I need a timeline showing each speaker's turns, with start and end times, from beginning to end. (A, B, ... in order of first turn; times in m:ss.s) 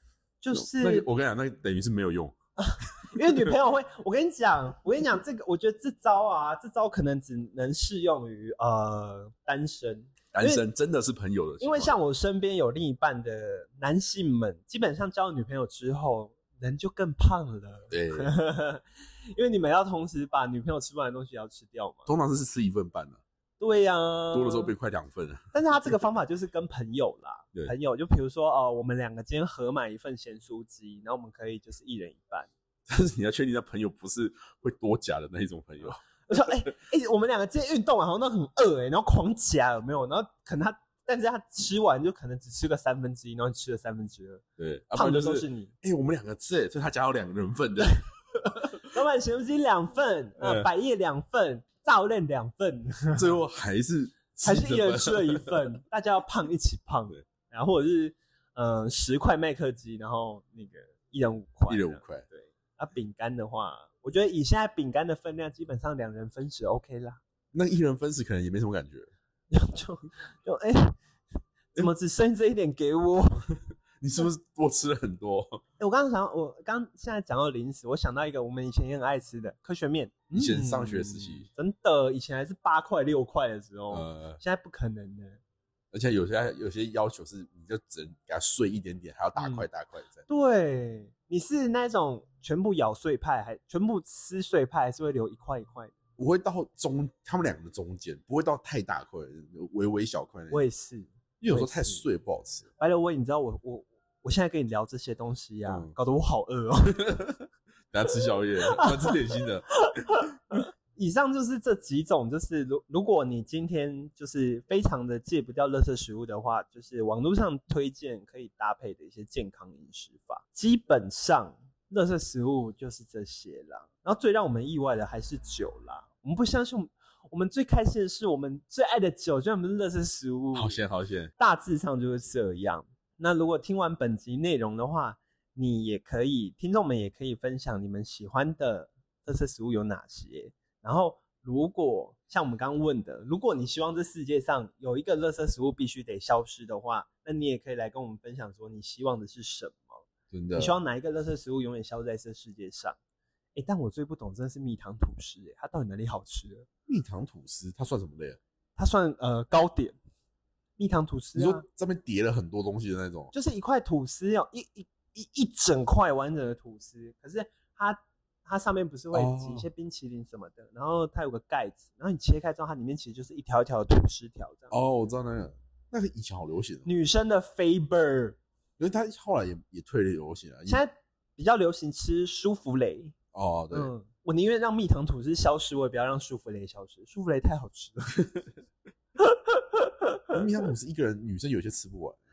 0:00.4-0:01.1 A
0:00.5-0:02.3 B
0:02.6-0:10.6 A
0:10.3-0:11.9 B
0:11.6-0:22.1 A
0:17.9-0:18.3 B
0:22.1-0:23.2 B
0:23.6-0:24.7 A
0:24.3-0:25.4 B
0:25.5-0:32.5 A
0:32.9-0:36.0 B
0:36.3-0:44.4 A
0:44.6-0:48.0 B
0:44.9-0:45.7 A
0:48.4-0:53.2 A
0:50.4-0:50.7 B
0:53.1-0:55.7 B
0:54.4-1:07.2 A
1:01.7-1:02.2 B
1:07.5-1:09.1 B
1:09.5-1:11.0 A
1:11.7-1:13.5 A
1:14.0-1:15.6 B
1:15.8-1:25.4 A
1:20.3-1:21.5 B
1:23.9-1:24.4 B
1:25.9-1:30.2 B
1:29.4-1:29.6 A
1:30.3-1:35.9 A
1:36.2-1:40.6 B
1:40.5-1:42.0 A
1:41.4-1:42.7 B
1:42.8-1:47.4 A
1:45.7-1:45.9 B
1:47.9-1:49.7 B
1:48.7-1:49.2 A
1:49.8-2:10.8 A
2:10.5-2:11.3 B
2:11.4-2:33.0 A
2:30.3-2:30.8 B
2:33.5-2:36.7 A
2:36.9-2:38.4 B
2:38.8-2:40.0 A
2:40.8-2:41.6 A
2:41.3-2:43.3 B
2:43.3-2:54.8 A
2:49.1-2:49.7 B
2:54.7-2:56.9 B
2:56.8-2:58.4 A
2:58.8-3:00.8 B
3:00.6-3:03.1 A
3:03.3-3:03.9 B
3:03.7-3:08.5 A
3:09.2-3:10.4 A
3:10.3-3:12.2 B